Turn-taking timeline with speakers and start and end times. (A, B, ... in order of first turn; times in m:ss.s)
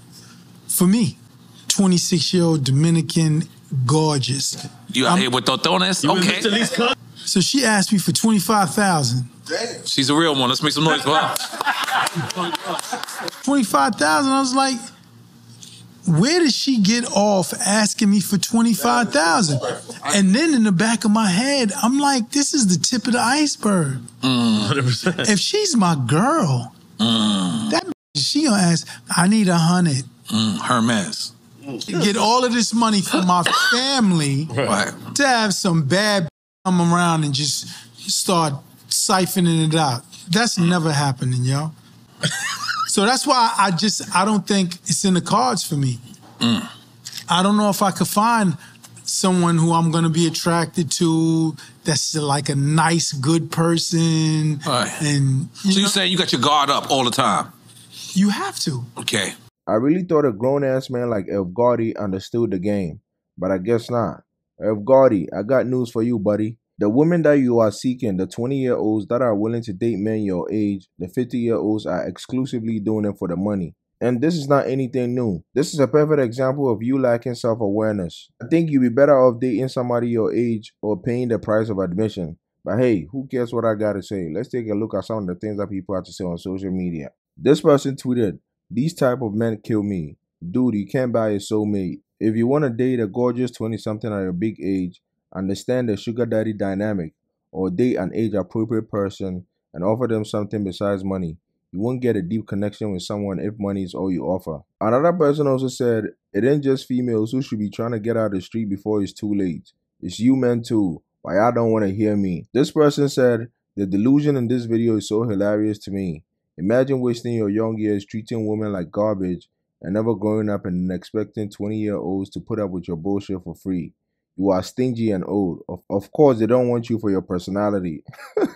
0:00.7-0:05.3 A
0:04.9-0:06.9 B
0:07.2-0:09.3 A
0:09.6-0:11.9 B
0:13.3-0:14.8 A
0:16.0-0:24.1 A
0:24.2-0:25.2 B
0:25.2-0:26.7 A
0:27.0-0:27.7 B
0:27.7-0:30.1 A
0:30.3-0:31.3 B
0:31.8-0:41.7 A
0:34.6-0:35.1 B
0:42.8-0:46.0 A
0:46.4-0:46.7 B
0:47.3-0:56.0 A
0:54.6-0:55.0 B
0:55.6-0:57.5 B
0:58.1-0:58.9 A
0:59.0-0:59.4 B
0:59.7-2:08.0 C